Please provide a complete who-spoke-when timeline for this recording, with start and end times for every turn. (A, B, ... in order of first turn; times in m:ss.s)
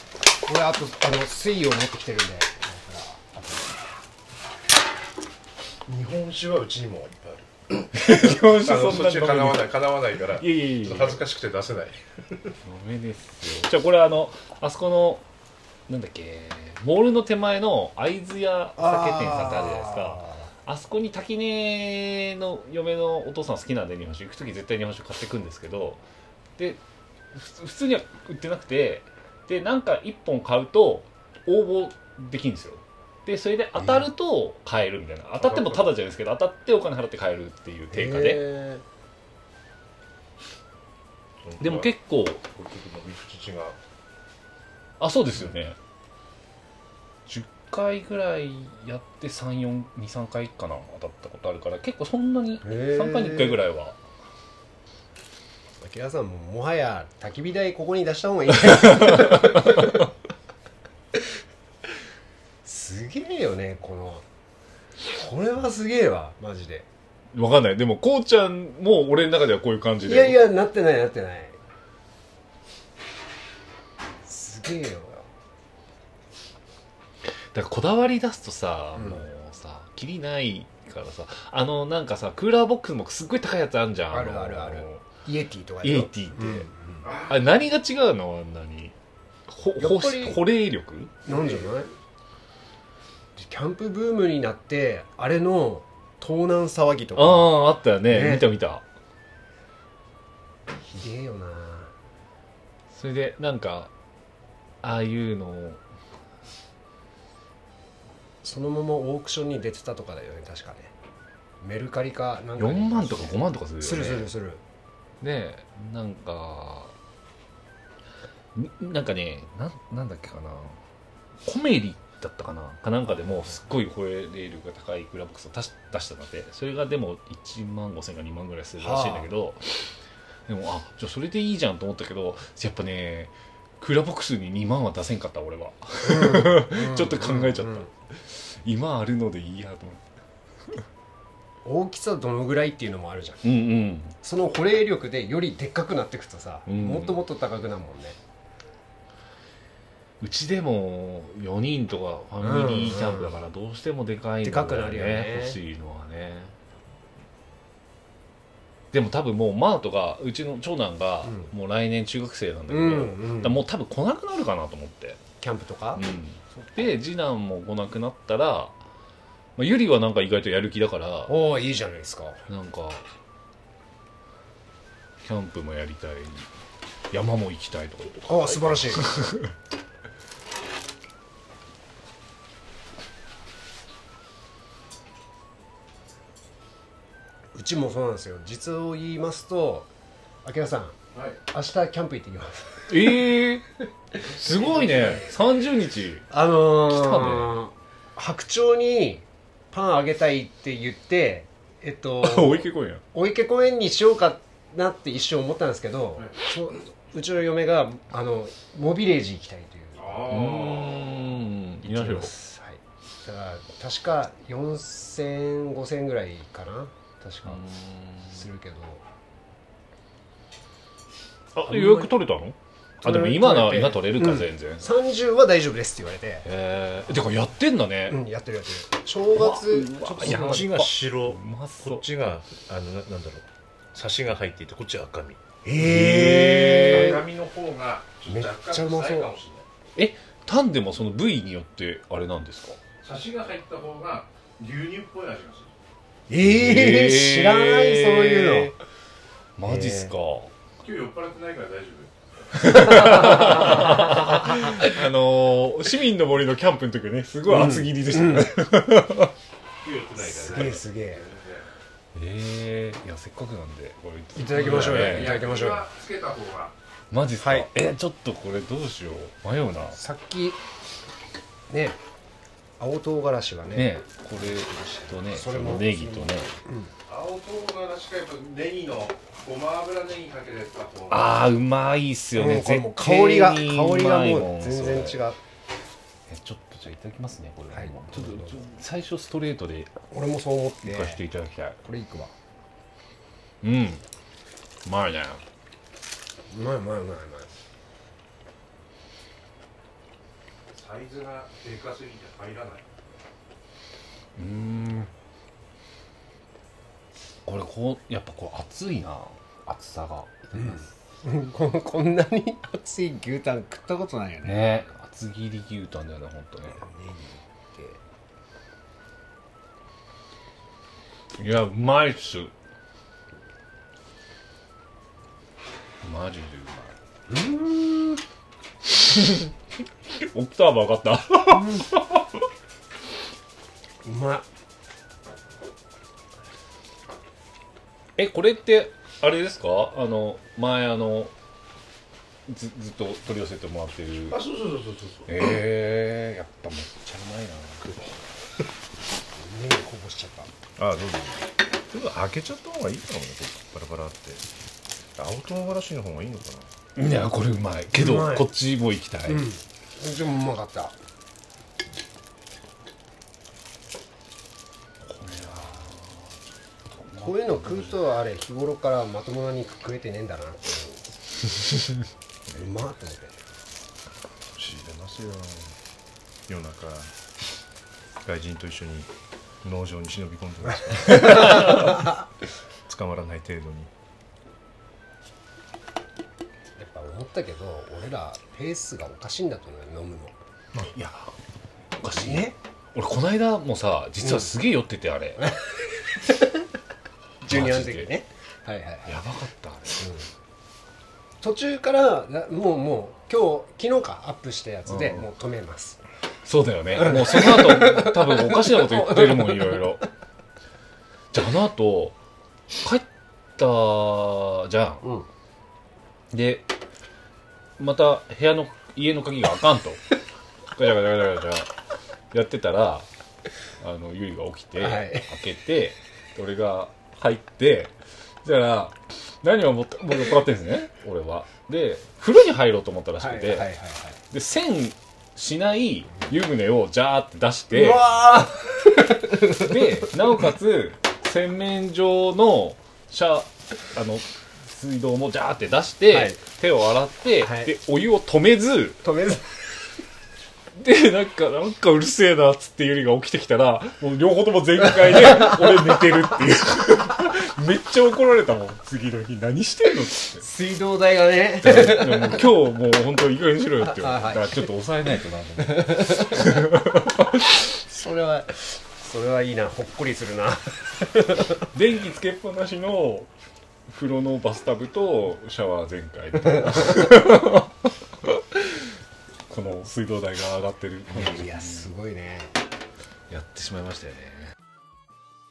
0:00.4-0:03.8 A
0:05.9-0:12.6 B
0:07.9-0:09.7 C
0:10.4-0:11.2 C
0:12.6-0:15.2 C
0:15.9-0:26.0 C
0:18.8-0:20.5 A
0:27.3-0:38.4 C
0:33.8-0:34.1 A
0:35.4-0:36.0 B
0:37.9-0:38.8 A
0:41.4-0:43.8 B
0:41.6-0:42.4 C
0:45.0-0:45.8 C
0:47.3-0:54.0 C
0:52.6-0:53.7 A
0:55.8-1:00.0 A
1:02.6-1:04.2 A
1:05.1-1:06.9 A
1:07.3-1:10.4 C
1:10.0-1:11.6 A
1:14.2-1:15.3 A
1:17.3-1:25.1 C
1:19.0-1:19.3 A
1:24.1-1:27.1 A
1:25.8-1:26.7 C
1:27.0-1:27.5 B
1:27.3-1:29.0 C
1:29.5-1:31.1 C
1:29.8-1:30.4 A
1:31.2-1:31.9 A
1:31.3-1:31.8 B
1:33.4-1:38.5 A
1:37.1-1:38.8 C
1:40.8-1:41.9 A
1:42.9-1:43.9 C
1:44.8-1:45.8 C
1:48.4-1:50.9 A
1:51.6-1:54.6 A
1:52.6-1:54.3 C
1:55.2-1:56.9 C
1:58.6-2:00.8 C
2:01.4-2:09.9 C
2:03.2-2:03.6 A
2:08.8-2:09.3 A
2:10.5-2:20.0 C
2:16.0-2:17.9 A
2:21.6-2:23.4 A
2:23.4-2:24.2 C
2:24.2-2:28.2 A
2:26.7-2:27.2 C
2:30.2-2:36.6 C
2:32.4-2:33.4 A
2:34.4-2:35.6 A
2:38.9-2:45.2 C
2:41.2-2:41.5 A
2:42.7-2:43.7 A
2:45.4-2:46.0 A
2:45.9-2:48.8 C
2:49.6-2:51.4 C
2:51.3-2:52.4 A
2:52.5-2:53.0 C
2:55.2-2:56.5 C
2:57.1-2:59.5 C
2:58.2-2:59.3 A
3:07.6-3:09.9 A
3:10.4-3:11.0 A
3:11.5-3:13.3 A
3:12.9-3:13.7 C
3:14.2-3:16.3 C
3:14.4-3:15.2 A
3:16.3-3:30.5 A
3:16.8-3:17.6 C
3:22.2-3:23.0 C
3:30.0-3:31.3 B
3:30.3-3:32.5 C
3:31.8-3:37.6 A
3:37.4-3:38.5 C
3:38.3-3:39.0 A
3:41.5-3:44.9 C
3:41.7-3:42.2 A
3:43.0-3:46.5 A
3:46.4-3:48.2 C
3:48.1-3:50.7 A
3:49.3-3:52.0 C
3:50.0-3:55.4 B
3:55.6-3:57.2 A
3:55.8-3:57.2 C
3:56.8-3:59.7 B
3:58.3-3:59.3 A
4:00.0-4:02.8 C
4:03.0-4:05.8 B
4:06.3-4:08.8 A
4:06.4-4:08.8 C
4:09.6-4:10.5 C
4:09.6-4:10.2 A
4:10.8-4:12.1 B
4:12.5-4:19.3 C
4:12.9-4:14.0 B
4:13.0-4:13.8 A
4:17.4-4:18.5 A
4:19.8-4:21.7 B
4:20.2-4:21.3 A
4:22.2-4:25.4 C
4:24.4-4:25.9 A
4:24.6-4:26.7 B
4:27.1-4:30.0 C
4:27.4-4:27.7 A
4:29.8-4:30.6 A
4:31.7-4:32.0 A
4:32.8-4:33.9 A
4:33.7-4:36.6 C
4:35.2-4:36.9 A
4:37.1-4:41.4 B
4:41.1-4:45.3 C
4:42.4-4:45.4 A
4:46.3-4:49.9 C
4:47.7-4:48.7 A
4:50.1-4:51.2 A
4:50.8-4:51.8 C
4:51.8-4:52.4 A
4:53.6-4:54.0 C
4:54.8-4:55.4 C
4:56.5-4:57.5 A
5:00.7-5:02.9 B
5:04.4-5:05.1 C
5:07.5-5:10.9 C
5:10.5-5:14.7 A
5:14.4-5:16.8 C
5:16.6-5:18.0 A
5:21.4-5:22.5 C
5:26.0-5:27.0 C
5:27.3-5:28.2 A
5:28.9-5:29.5 C
5:30.1-5:32.4 C
5:31.5-5:31.9 A
5:34.0-5:34.5 A
5:38.2-5:41.3 C
5:42.5-5:44.4 C
5:44.3-5:45.5 B
5:45.3-5:47.9 C
5:49.4-5:50.5 A
5:50.8-5:54.4 B
5:55.2-5:56.7 B
5:57.0-5:59.5 C
5:57.9-5:58.5 A
5:59.3-6:01.0 A
6:05.1-6:06.4 C
6:06.9-6:08.0 C
6:07.2-6:11.1 A
6:12.5-6:13.4 A
6:14.6-6:15.8 B
6:16.5-6:17.1 B
6:18.2-6:19.1 B
6:19.6-6:22.0 B
6:21.2-6:21.9 C
6:21.7-6:22.1 A
6:22.9-6:23.9 B
6:26.8-6:30.4 A
6:30.8-6:31.3 C
6:32.0-6:35.5 C
6:32.1-6:32.6 A
6:34.2-6:34.6 A
6:35.4-6:35.7 A
6:37.4-6:38.1 C
6:37.4-6:39.2 A
6:39.0-6:40.1 C
6:40.0-6:40.3 A
6:41.4-6:46.0 A
6:44.9-6:45.3 C
6:46.4-6:50.1 C
6:46.9-6:50.0 A
6:51.3-6:52.2 C
6:52.8-6:55.1 C
6:55.0-6:55.3 A
6:56.3-6:56.7 C
6:57.8-7:00.0 C
7:00.7-7:01.7 C
7:02.3-7:03.1 C
7:03.8-7:13.7 C
7:04.8-7:05.3 A
7:13.2-7:14.2 A
7:14.3-7:18.2 C
7:17.7-7:20.1 A
7:19.3-7:29.0 C
7:26.1-7:26.4 A
7:27.4-7:27.7 A
7:29.0-7:29.6 A
7:30.8-7:40.5 C
7:40.4-7:42.4 A
7:41.6-7:47.2 C
7:43.8-7:44.7 A
7:45.8-7:46.6 A
7:47.8-7:51.7 A
7:51.7-7:53.3 C
7:53.9-7:57.7 C
7:58.3-7:58.8 C
7:59.5-8:01.9 C
8:01.1-8:02.5 A
8:03.3-8:04.5 C